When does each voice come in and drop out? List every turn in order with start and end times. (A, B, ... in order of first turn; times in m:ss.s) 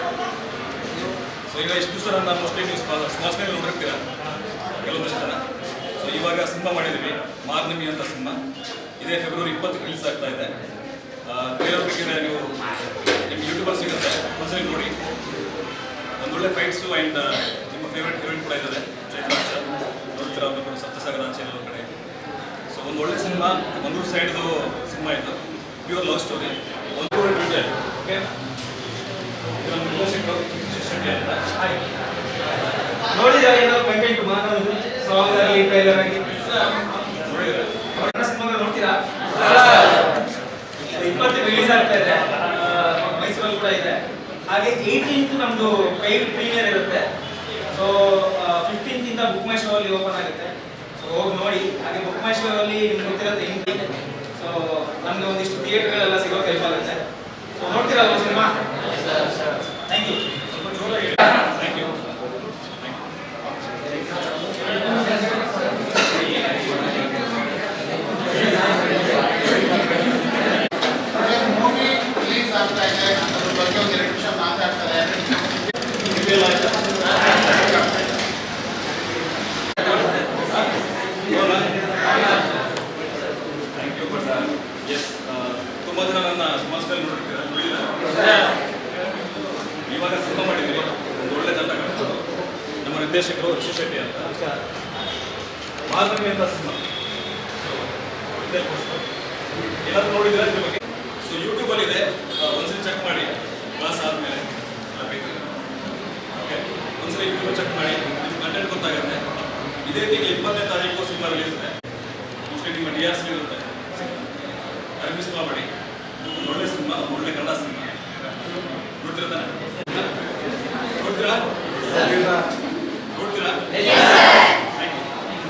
0:01.5-0:04.0 A
0:04.8-0:05.4 A
0:06.0-0:08.4 A
0:09.0-0:10.5 A
0:11.2-0:12.5 A
0:13.2-0:14.9 A
0:16.2-0:21.9 A
0:22.7-0:28.2 A
0:29.6-0:31.5 A
0:33.1-0:36.2 B
0:37.2-0:37.7 A
0:38.0-0:39.0 B
0:39.5-0:39.8 B
0:41.0-0:47.0 B
0:47.7-0:57.0 B
0:57.6-0:58.5 B
0:59.9-1:00.2 B
1:00.5-1:02.0 A
1:11.1-1:15.6 C
1:16.0-1:17.7 A
1:20.4-1:20.7 A
1:21.3-1:21.7 A
1:23.7-1:28.0 A
1:29.9-1:32.2 A
1:32.8-1:34.3 A
1:35.9-1:36.8 A
1:37.6-1:39.0 A
1:39.8-1:45.5 A
1:46.3-1:49.2 A
1:49.8-1:51.7 A
1:52.5-1:54.3 A
1:55.0-1:55.7 A
1:56.2-1:57.9 A
1:59.0-1:59.5 A
2:01.0-2:02.4 A
2:03.1-2:03.8 A
2:04.8-2:05.1 A